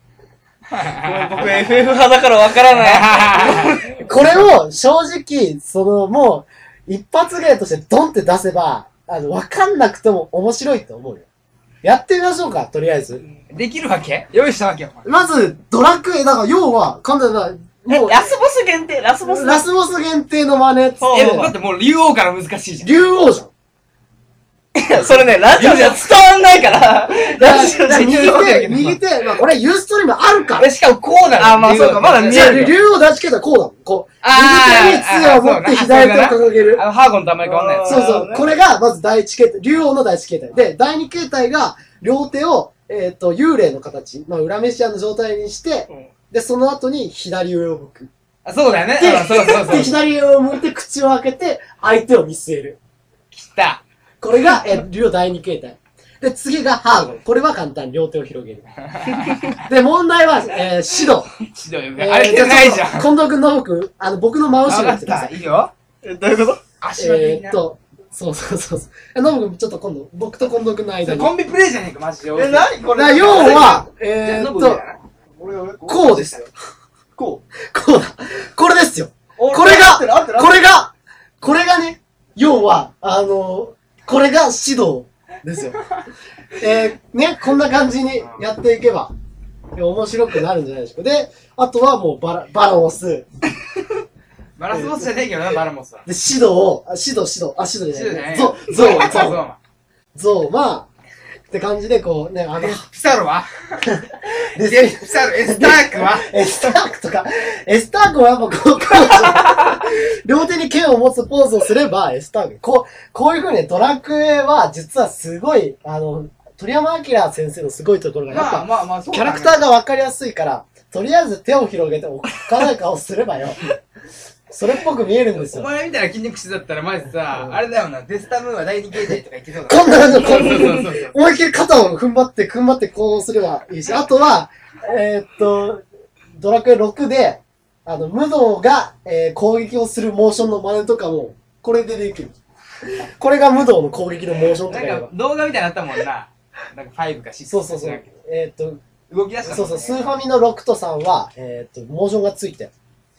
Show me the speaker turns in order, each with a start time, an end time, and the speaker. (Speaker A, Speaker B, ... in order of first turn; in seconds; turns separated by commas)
Speaker A: 0.7-2.0, Speaker B: 1.0-3.8, Speaker A: 2.7-4.5, Speaker C: 4.0-11.2, Speaker C: 11.8-13.2, Speaker A: 13.5-15.1, Speaker C: 15.0-18.2, Speaker B: 17.9-19.6, Speaker C: 19.2-21.5, Speaker B: 21.0-21.5, Speaker A: 21.1-23.1, Speaker C: 22.8-23.5, Speaker B: 24.7-28.6, Speaker A: 25.5-29.0, Speaker C: 27.4-30.7, Speaker A: 30.5-32.8, Speaker B: 31.4-32.7, Speaker C: 31.8-36.8, Speaker A: 34.2-38.2, Speaker B: 37.4-38.5, Speaker C: 37.9-48.1, Speaker A: 48.4-50.0, Speaker C: 49.0-52.8, Speaker A: 53.3-53.8, Speaker C: 54.2-58.7, Speaker A: 58.9-59.6, Speaker C: 59.6-61.3, Speaker A: 61.4-63.1, Speaker C: 62.0-65.4, Speaker A: 64.7-65.7, Speaker B: 66.0-66.6, Speaker A: 66.8-67.6, Speaker C: 67.0-71.3, Speaker A: 71.0-75.0, Speaker B: 72.3-73.8, Speaker C: 73.0-74.8, Speaker B: 75.4-76.5, Speaker C: 75.8-76.5, Speaker B: 77.2-77.4, Speaker C: 77.7-85.8, Speaker B: 79.4-80.6, Speaker C: 86.6-89.1, Speaker C: 89.8-93.3, Speaker A: 94.6-96.0, Speaker C: 94.7-95.1, Speaker C: 96.0-99.4, Speaker A: 97.9-99.6, Speaker B: 98.7-99.2, Speaker C: 100.1-100.9, Speaker C: 101.5-102.8, Speaker A: 102.6-104.0, Speaker C: 103.9-123.7, Speaker A: 104.6-106.3, Speaker A: 118.3-119.6, Speaker C: 124.5-125.7, Speaker A: 125.3-131.1, Speaker C: 129.0-135.8, Speaker C: 136.3-142.3, Speaker C: 143.1-145.1, Speaker A: 144.6-148.1, Speaker C: 147.5-148.8, Speaker A: 149.1-150.2, Speaker C: 149.4-152.7